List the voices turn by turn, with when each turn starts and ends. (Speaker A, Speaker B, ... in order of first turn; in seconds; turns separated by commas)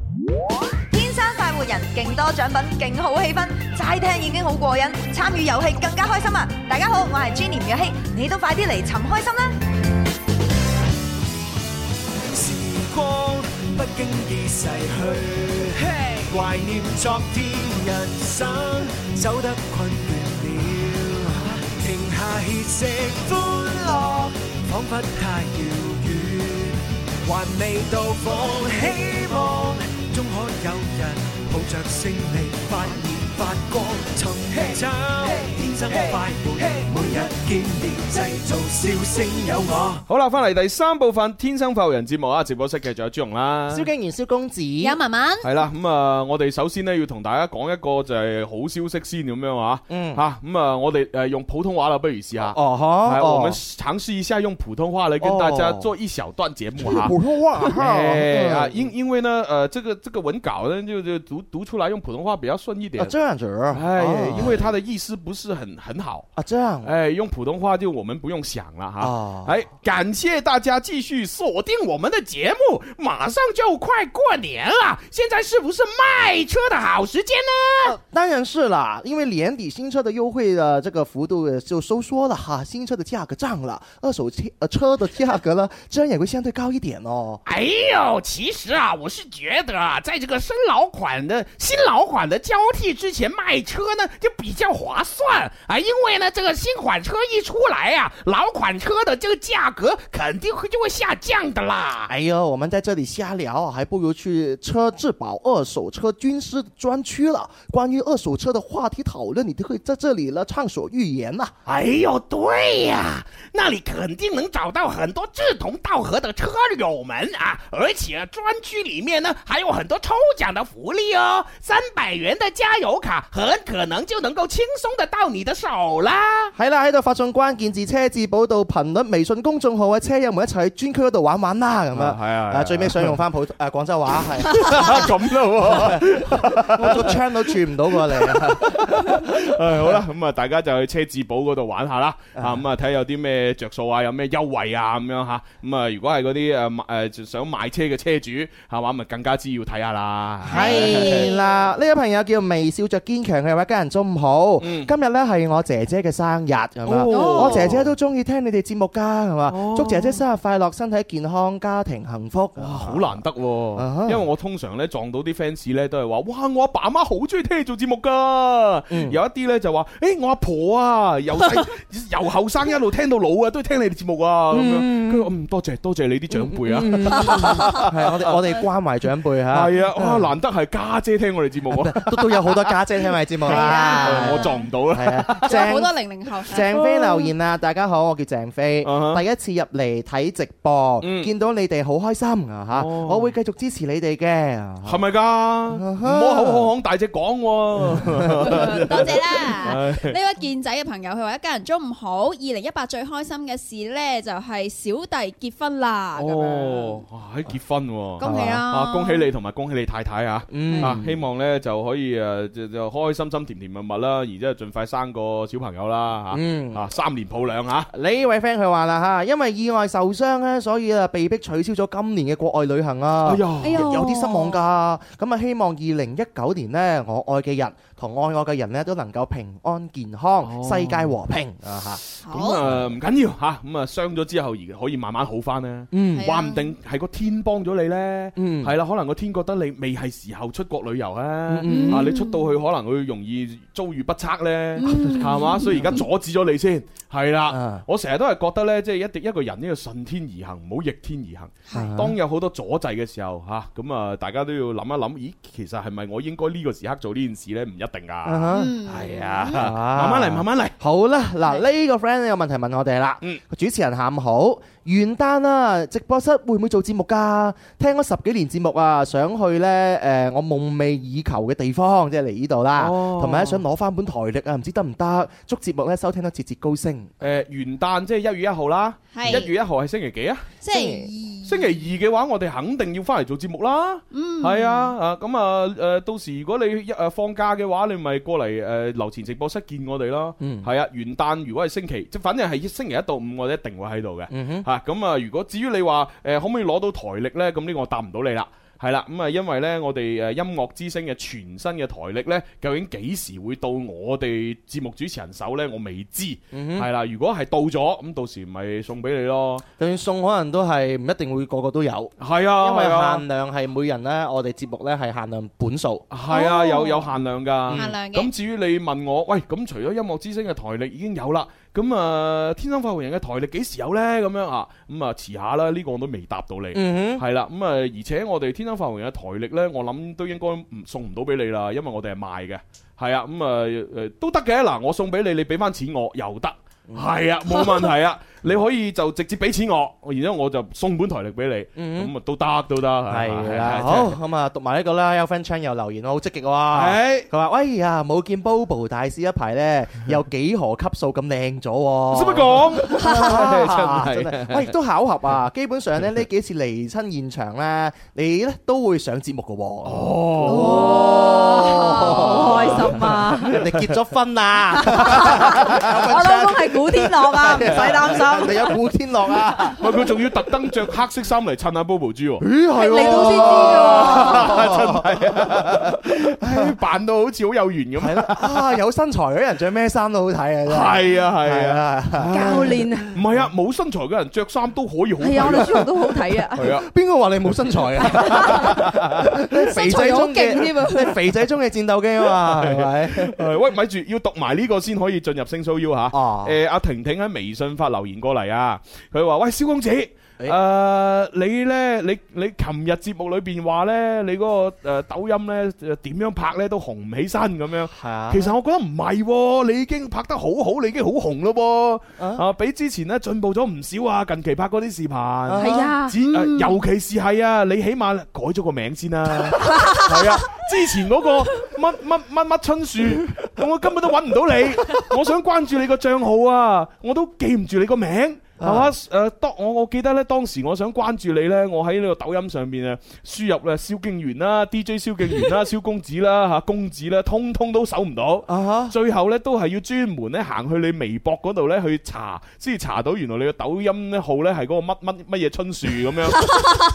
Speaker A: 0.9-9.6, Speaker B: 12.2-40.1, Speaker C: 40.1-43.9, Speaker D: 43.7-45.0, Speaker E: 44.8-45.5, Speaker C: 45.4-63.1, Speaker D: 49.9-50.2, Speaker D: 52.4-53.6, Speaker D: 55.2-55.9, Speaker D: 56.8-58.9, Speaker D: 63.0-64.7, Speaker C: 63.7-66.3, Speaker D: 66.4-66.9, Speaker C: 66.8-71.4, Speaker D: 69.0-69.5, Speaker F: 71.4-78.0, Speaker D: 77.8-87.4, Speaker F: 87.5-102.1, Speaker D: 102.1-111.5, Speaker F: 111.7-126.5, Speaker D: 126.6-140.0, Speaker C: 131.9-133.2, Speaker C: 134.5-151.3, Speaker D: 142.3-142.6, Speaker D: 150.5-163.2, Speaker E: 150.5-151.5, Speaker C: 154.6-154.9, Speaker C: 156.8-157.9, Speaker E: 157.1-157.7, Speaker C: 159.5-160.2, Speaker C: 162.6-178.4, Speaker D: 163.8-164.2, Speaker D: 168.9-169.2, Speaker D: 174.5-175.3, Speaker D: 176.3-180.3, Speaker E: 177.2-177.7, Speaker C: 179.5-182.8, Speaker D: 181.7-186.0, Speaker E: 183.4-184.7, Speaker C: 183.4-185.7, Speaker E: 185.4-187.3, Speaker D: 186.5-195.0, Speaker C: 188.8-189.2, Speaker C: 191.0-191.3, Speaker C: 192.7-193.3, Speaker C: 194.8-200.2, Speaker D: 195.7-196.7, Speaker D: 198.0-198.5, Speaker E: 198.4-207.0, Speaker C: 206.2-217.9, Speaker E: 208.2-209.3, Speaker D: 208.2-208.6, Speaker D: 210.5-211.2, Speaker D: 216.3-216.8, Speaker D: 217.9-232.0, Speaker C: 223.2-224.0, Speaker G: 223.6-224.6, Speaker C: 230.4-231.2, Speaker C: 232.1-260.8, Speaker E: 232.2-232.6, Speaker D: 235.9-236.2, Speaker E: 236.2-236.7, Speaker D: 238.4-238.7, Speaker D: 241.5-242.1, Speaker E: 241.8-242.3, Speaker E: 244.8-246.0, Speaker D: 244.8-245.8, Speaker D: 247.5-247.8, Speaker D: 251.7-252.2, Speaker D: 258.2-258.8, Speaker E: 258.5-259.6, Speaker D: 259.6-277.1, Speaker C: 272.8-273.6, Speaker C: 277.2-280.5, Speaker E: 279.1-279.5, Speaker E: 280.6-281.6, Speaker D: 280.7-281.1, Speaker C: 281.5-309.6, Speaker E: 284.1-284.9, Speaker D: 290.4-290.7, Speaker D: 294.3-294.7, Speaker D: 306.5-306.9, Speaker D: 309.8-316.1, Speaker C: 312.2-313.2, Speaker C: 316.1-344.2, Speaker E: 316.3-317.1, Speaker D: 317.7-318.0, Speaker E: 317.7-318.3, Speaker D: 326.7-327.2, Speaker D: 341.8-342.1, Speaker D: 343.1-369.8, Speaker C: 346.7-347.3, Speaker C: 352.1-354.7, Speaker C: 359.9-363.8, Speaker G: 360.5-363.6, Speaker G: 364.7-368.8, Speaker C: 365.1-365.4, Speaker C: 369.7-378.6, Speaker D: 372.4-376.7, Speaker G: 372.7-374.6, Speaker D: 378.0-382.8, Speaker C: 380.7-385.9, Speaker G: 382.3-383.2, Speaker G: 385.2-386.7, Speaker D: 385.4-385.7, Speaker C: 386.5-386.9, Speaker D: 386.9-393.5, Speaker G: 388.0-388.7, Speaker C: 388.2-389.1, Speaker E: 389.7-391.0, Speaker G: 389.8-390.9, Speaker C: 392.2-446.6, Speaker D: 396.1-396.6, Speaker D: 407.9-408.5, Speaker D: 412.2-412.4, Speaker D: 415.5-415.9, Speaker G: 415.6-416.8, Speaker D: 428.6-428.9, Speaker D: 438.5-438.9